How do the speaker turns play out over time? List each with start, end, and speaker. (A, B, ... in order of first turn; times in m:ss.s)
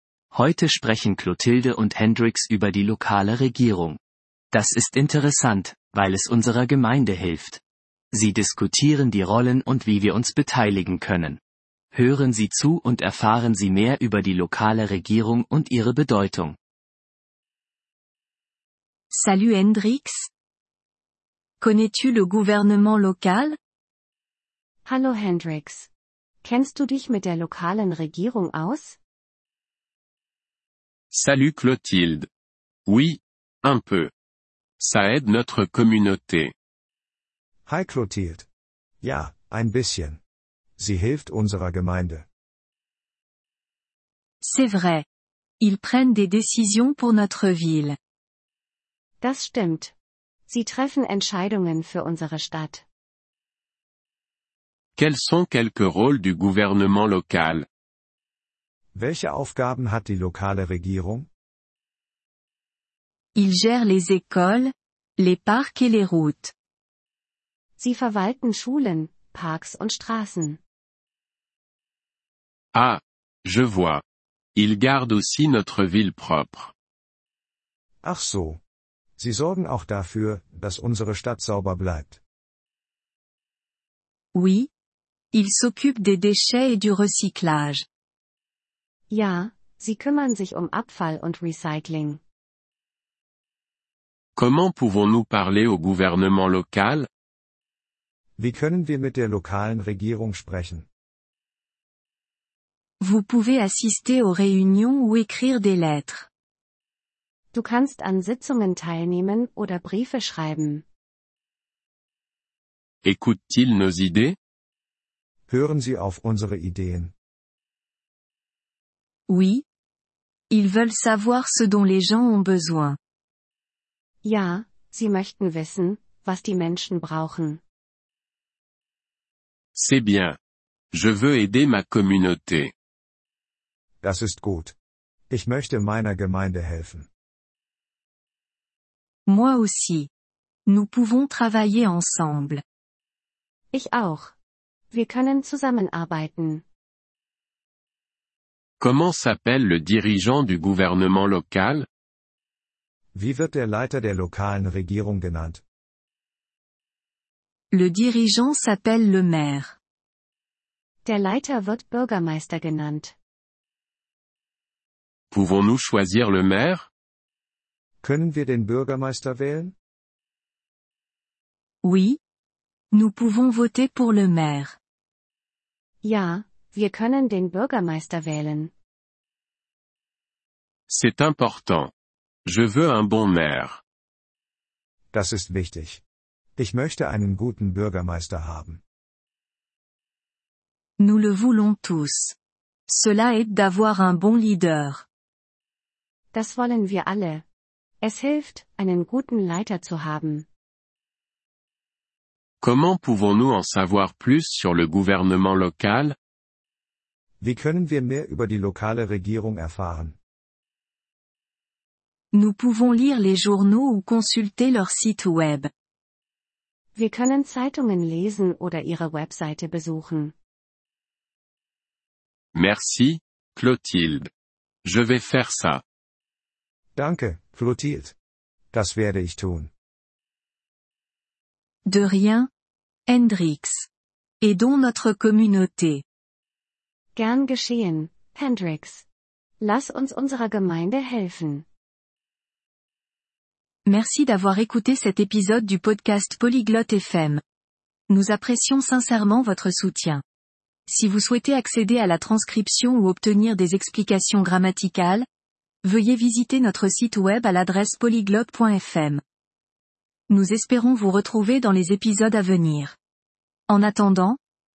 0:00.3-0:04.0 A
0:04.5-0:07.6 A
0:08.2-0:11.4 A
0:11.9-0:16.6 A
0:19.1-0:20.3 B
0:21.6-0:23.6 B
0:24.8-0:25.9 C
0:26.4-0:29.0 C
0:31.1-0:32.3 D
0:32.8-0:34.1 D
0:34.8-0:36.5 D
0:37.6-0:38.4 E
0:39.0-0:40.2 E
0:40.8-0:42.2 E
0:44.4-0:45.0 B
0:45.6-0:48.0 B
0:49.2-0:49.9 C
0:50.5-0:52.8 C
0:55.0-0:57.6 D
0:58.9-1:01.3 E
1:03.3-1:06.5 B
1:07.8-1:10.6 C
1:12.7-1:14.0 D
1:14.6-1:16.7 D
1:18.0-1:18.6 E
1:19.2-1:22.2 E
1:24.3-1:24.7 B
1:25.3-1:27.8 B
1:29.1-1:32.2 C
1:34.4-1:37.1 D
1:38.4-1:40.8 E
1:43.0-1:46.3 B
1:47.5-1:50.8 C
1:53.0-1:54.4 D
1:55.5-1:57.1 E
1:59.3-1:59.6 B
2:00.5-2:03.0 B
2:04.2-2:07.6 C
2:09.7-2:10.4 D
2:10.9-2:12.7 D
2:14.0-2:14.7 E
2:15.3-2:17.1 E
2:19.2-2:20.1 B
2:20.6-2:22.6 B
2:23.7-2:24.3 C
2:24.9-2:26.6 C
2:28.8-2:31.8 D
2:33.1-2:35.6 E
2:37.7-2:39.8 B
2:41.0-2:43.1 C
2:45.3-2:46.9 D
2:48.0-2:49.7 E
2:51.8-2:52.2 B
2:52.9-2:54.8 B
2:56.0-2:58.7 C
3:00.9-3:01.9 D
3:02.4-3:03.8 D
3:05.1-3:06.0 E
3:06.6-3:08.8 E
3:11.0-3:12.4 B
3:12.9-3:15.0 B
3:16.3-3:17.4 C
3:18.0-3:20.4 C
3:22.6-3:26.2 D
3:27.4-3:30.2 E
3:32.3-3:35.7 B
3:37.0-3:40.3 C
3:42.5-3:44.3 D
3:44.8-3:45.8 D
3:47.0-3:48.1 E
3:48.7-3:49.7 E
3:51.8-3:52.5 B
3:53.1-3:53.9 B
3:54.4-3:56.0 B
3:57.2-3:59.0 C
3:59.6-4:01.6 C
4:03.8-4:07.4 B
4:08.1-4:10.2 B
4:10.8-4:15.2 B
4:15.8-4:19.2 B
4:20.3-4:23.0 B
4:23.7-4:24.4 B